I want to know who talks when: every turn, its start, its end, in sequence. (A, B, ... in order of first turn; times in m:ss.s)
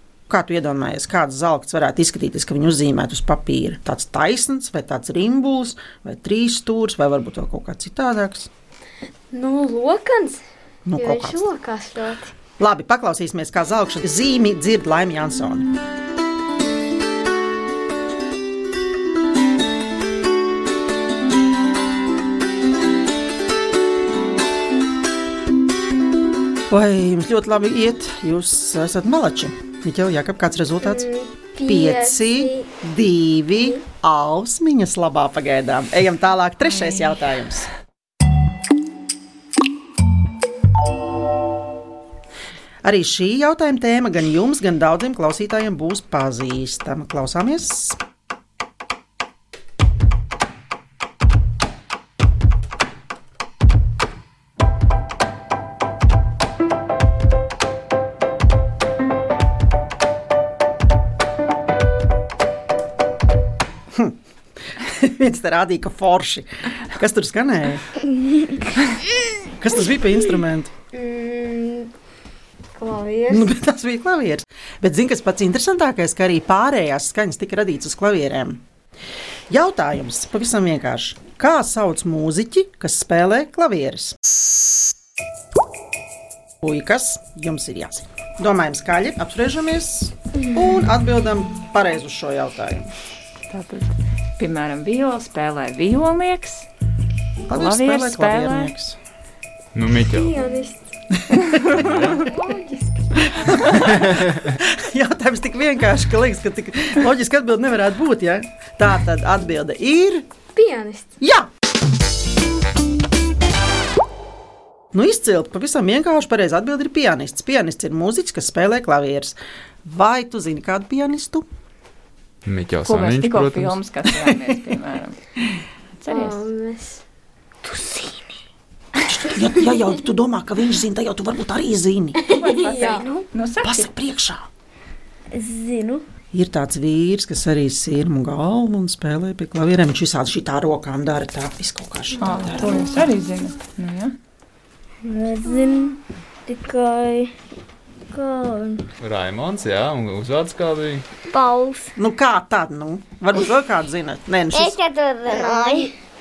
0:00.3-0:08.5 A
0:09.3-0:10.4 B
0:10.8-0:11.4 A
0:11.0-0:12.3 B
0:12.6-0:15.7 A
0:26.7-0:31.1 A
0:30.8-0:32.7 B
0:31.6-0:37.7 A
0:33.5-0:33.8 B
0:42.8-0:48.0 A
1:04.8-1:07.9 A
1:09.6-1:10.7 A
1:10.9-1:11.9 B
1:12.8-1:13.5 B
1:13.3-1:18.6 A
1:19.5-1:24.2 A
1:26.6-1:32.9 A
1:33.5-1:36.7 C
1:37.5-1:39.0 A
1:37.5-1:38.7 C
1:39.7-1:40.3 D
1:40.0-1:40.8 B
1:41.2-1:41.6 A
1:41.8-1:42.2 D
1:41.8-1:43.6 B
1:43.5-1:50.2 A
1:50.5-1:51.1 B
1:51.2-1:51.5 A
1:54.9-2:01.4 A
2:02.4-2:03.8 D
2:02.8-2:05.2 C
2:06.0-2:06.4 C
2:06.1-2:07.0 B
2:07.6-2:08.3 E
2:09.1-2:12.2 A
2:12.3-2:13.0 B
2:12.3-2:13.9 C
2:13.6-2:14.4 A
2:15.3-2:16.0 E
2:16.3-2:23.0 A
2:22.2-2:24.2 C
2:25.0-2:27.3 E
2:28.1-2:28.8 E
2:29.0-2:31.0 D
2:31.3-2:31.9 E
2:32.0-2:34.8 A
2:34.5-2:35.9 E